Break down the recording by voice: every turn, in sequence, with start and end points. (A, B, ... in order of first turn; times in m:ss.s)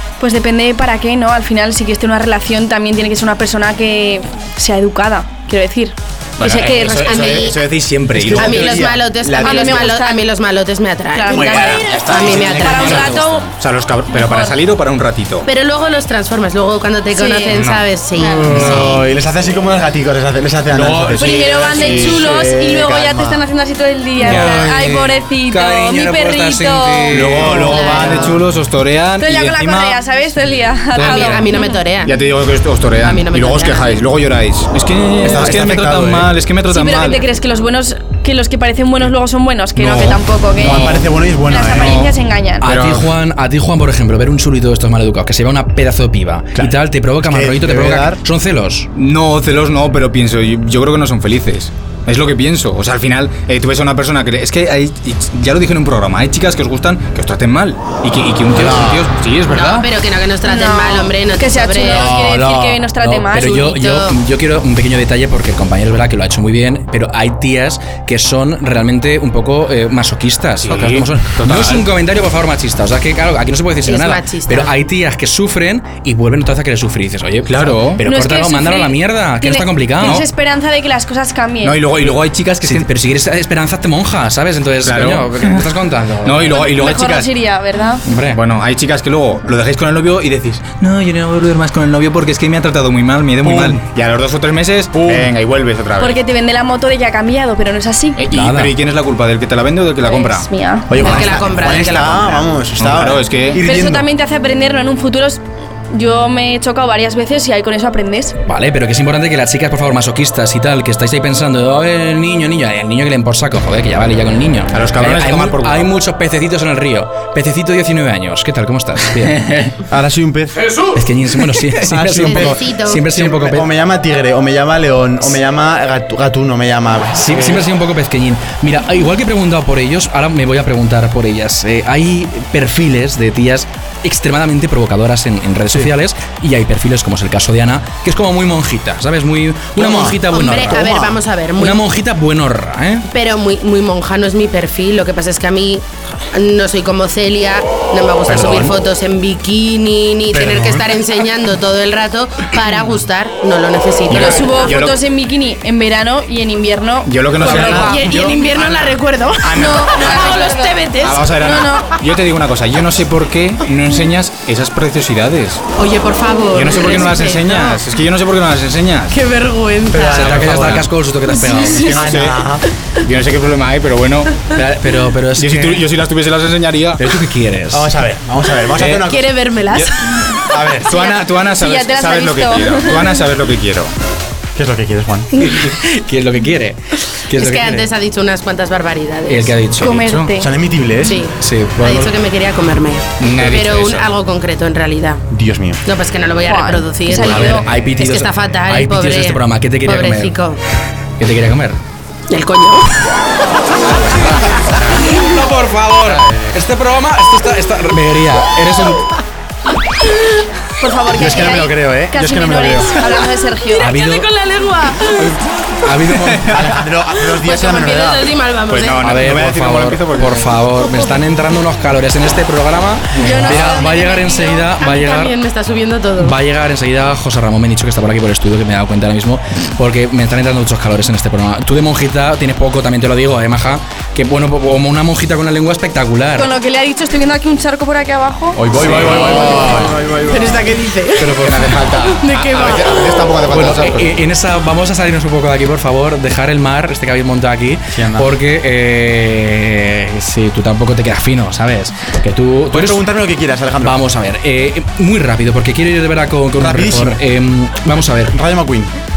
0:00.2-0:06.0 A
0:06.4-0:08.8 B
0:06.4-0:07.6 C
0:08.1-0:10.0 D
0:08.3-0:13.2 C
0:09.4-0:10.2 A
0:11.1-0:13.5 A
0:11.3-0:11.8 D
0:11.5-0:15.5 B
0:14.1-0:14.6 A
0:15.5-0:19.0 C
0:17.1-0:17.6 A
0:17.5-0:17.8 B
0:18.2-0:23.4 D
0:18.5-0:19.0 B
0:20.7-0:22.2 B
0:21.1-0:28.0 A
0:24.2-0:24.7 B
0:24.2-0:27.9 E
0:27.1-0:30.0 B
0:27.4-0:28.4 D
0:27.7-0:28.3 C
0:29.2-0:31.8 A
0:31.0-0:37.2 B
0:31.0-0:32.1 C
0:33.0-0:34.0 C
0:35.2-0:36.3 D
0:36.7-0:42.6 A
0:39.8-0:41.0 B
0:40.6-0:42.0 D
0:41.7-0:42.1 B
0:42.6-0:48.9 E
0:42.6-0:43.1 B
0:46.5-0:48.2 D
0:49.0-0:59.9 B
0:58.5-0:59.0 D
0:59.5-1:02.2 C
1:00.4-1:03.7 A
1:01.8-1:02.8 D
1:03.0-1:20.2 E
1:03.4-1:04.1 C
1:10.6-1:11.9 B
1:13.9-1:14.7 C
1:17.5-1:18.0 B
1:18.0-1:21.8 A
1:21.6-1:22.9 B
1:22.6-1:26.6 E
1:24.8-1:25.7 B
1:26.2-1:27.3 B
1:26.5-1:28.0 A
1:28.0-1:28.4 E
1:28.3-1:36.2 B
1:33.4-1:33.8 D
1:34.9-1:35.3 D
1:36.0-1:38.2 A
1:38.2-1:40.5 B
1:38.3-1:38.7 E
1:40.0-1:41.0 A
1:40.9-1:44.1 D
1:41.0-1:42.5 C
1:42.8-1:43.6 B
1:43.6-1:45.4 A
1:45.9-1:48.4 A
1:48.5-1:59.6 E
1:54.7-1:55.9 B
1:59.9-2:00.8 D
2:00.9-2:03.7 E
2:01.8-2:07.6 D
2:02.2-2:03.0 C
2:07.2-2:20.9 E
2:19.8-2:21.2 D
2:20.3-2:21.8 C
2:21.6-2:23.1 E
2:23.1-2:34.8 C
2:28.3-2:28.7 E
2:30.3-2:30.9 D
2:34.1-2:35.0 B
2:34.1-2:38.4 A
2:37.1-2:38.8 B
2:37.4-2:41.3 C
2:39.4-2:45.6 B
2:39.5-2:40.8 A
2:41.4-2:41.9 A
2:45.8-2:47.8 C
2:46.5-2:49.2 B
2:49.1-2:50.3 C
2:49.9-2:50.8 D
2:50.1-2:51.9 E
2:50.1-2:50.9 B
2:51.8-2:52.4 B
2:51.9-2:52.6 D
2:53.0-2:54.4 B
2:54.5-2:55.8 E
2:55.4-2:57.0 B
2:57.0-2:57.9 E
2:57.7-2:59.3 D
2:58.8-2:59.1 B
2:59.0-3:00.2 C
3:00.5-3:00.9 D
3:00.8-3:03.9 B
3:01.5-3:03.2 A
3:04.6-3:05.3 D
3:05.4-3:07.9 E
3:07.3-3:09.6 C
3:09.3-3:10.2 E
3:09.8-3:10.5 A
3:09.8-3:10.3 B
3:10.4-3:11.2 D
3:11.0-3:15.2 C
3:11.4-3:12.1 E
3:13.2-3:14.1 B
3:15.3-3:15.8 D
3:15.9-3:20.6 C
3:16.5-3:17.6 A
3:17.1-3:20.4 E
3:21.2-3:21.8 E
3:22.3-3:23.0 C
3:24.9-3:29.1 E
3:30.8-3:33.9 A
3:31.1-3:33.0 D
3:33.8-3:35.3 C
3:33.8-3:34.3 E
3:35.8-3:36.8 E
3:36.5-3:38.3 D
3:37.2-3:39.0 C
3:38.7-3:40.6 B
3:39.0-3:45.3 E
3:43.2-3:44.6 A
3:43.5-3:46.4 C
3:46.2-3:56.5 E
3:56.4-3:58.6 A
3:58.7-4:00.6 D
3:58.7-3:59.9 E
3:58.8-4:00.0 B
3:59.4-3:59.8 C
4:00.3-4:01.4 C
4:01.2-4:01.8 E
4:01.4-4:04.2 B
4:02.2-4:03.2 C
4:03.5-4:13.1 E
4:07.9-4:08.3 D
4:12.7-4:14.0 D
4:13.8-4:18.4 E
4:16.6-4:17.2 D
4:18.3-4:18.9 D